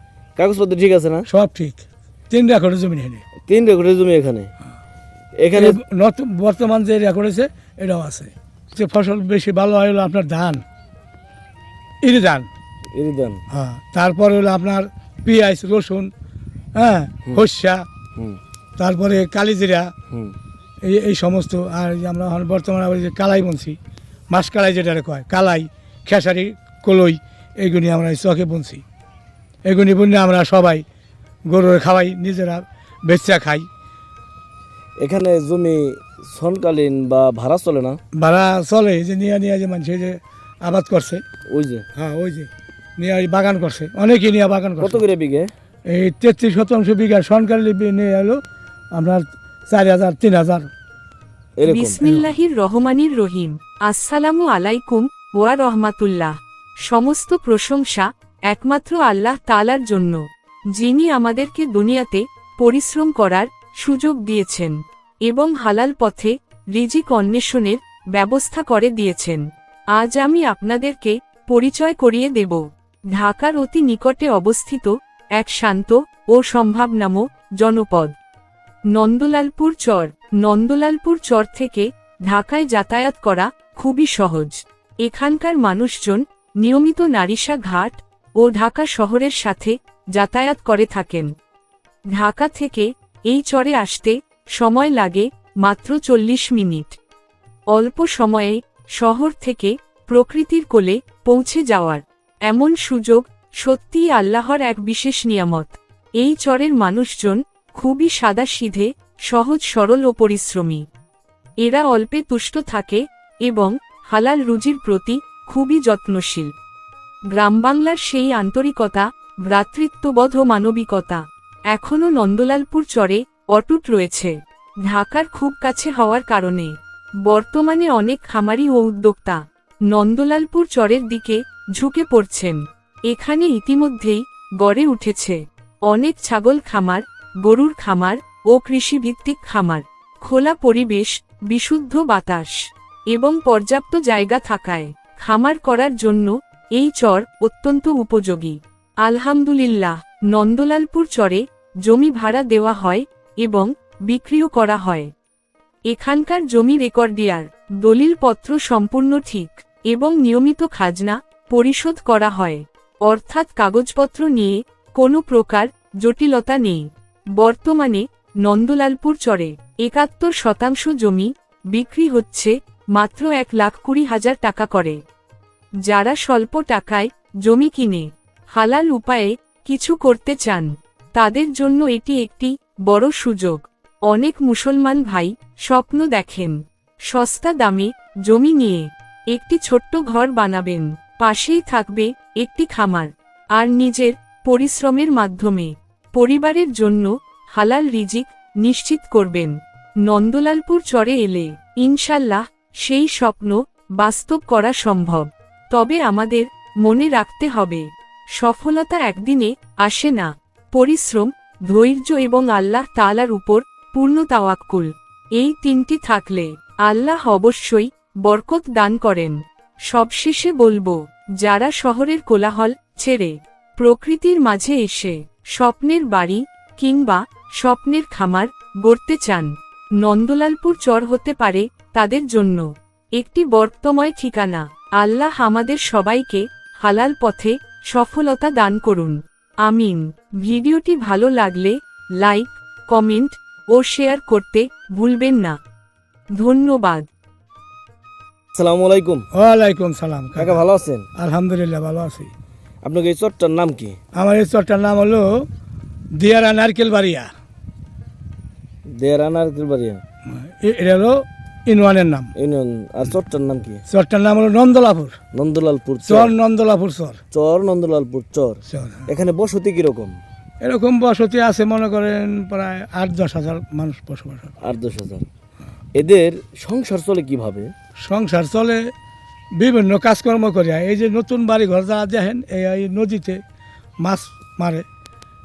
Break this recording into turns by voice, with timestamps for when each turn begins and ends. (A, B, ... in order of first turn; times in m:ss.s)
0:00.4-0:01.3 A
0:01.3-0:03.2 B
0:03.5-0:04.5 A
0:05.4-0:05.8 A
0:05.5-0:10.6 B
0:12.0-0:12.5 B
0:12.9-0:13.4 A
0:13.5-0:16.1 B
0:16.7-0:17.8 B
0:18.8-0:19.9 B
0:20.8-0:23.8 B
0:24.3-0:28.8 B
0:29.6-0:30.8 B
0:31.5-0:33.7 B
0:35.0-0:38.0 A
0:38.1-0:41.2 B
0:41.5-0:41.8 A
0:42.0-0:45.0 B
0:44.8-0:45.5 A
0:45.9-0:48.4 B
0:48.9-0:50.7 B
0:51.6-0:52.0 A
0:51.6-1:18.1 C
0:52.0-0:52.3 B
1:18.9-1:31.3 C
1:32.1-1:37.0 C
1:37.7-1:50.8 C
1:51.6-1:56.5 C
1:57.3-2:06.7 C
2:07.2-2:35.1 C
2:35.9-2:46.8 C
2:47.4-2:55.0 C
2:55.8-4:05.6 C
4:06.3-4:07.1 C
4:08.5-4:09.2 A
4:09.3-4:10.6 B
4:10.4-4:11.0 A
4:11.1-4:12.3 B
4:12.8-4:14.0 A
4:14.1-4:15.5 B
4:16.1-4:17.3 B
4:18.9-4:20.0 A
4:20.3-4:22.3 B
4:22.4-4:23.8 A
4:23.9-4:25.2 B
4:25.3-4:26.3 A
4:26.0-4:27.2 B
4:27.3-4:30.2 A
4:28.7-4:29.1 B
4:30.6-4:34.6 B
4:34.6-4:35.2 A
4:36.0-4:37.7 A
4:38.0-4:38.8 B
4:39.6-4:43.4 B
4:44.0-4:44.8 B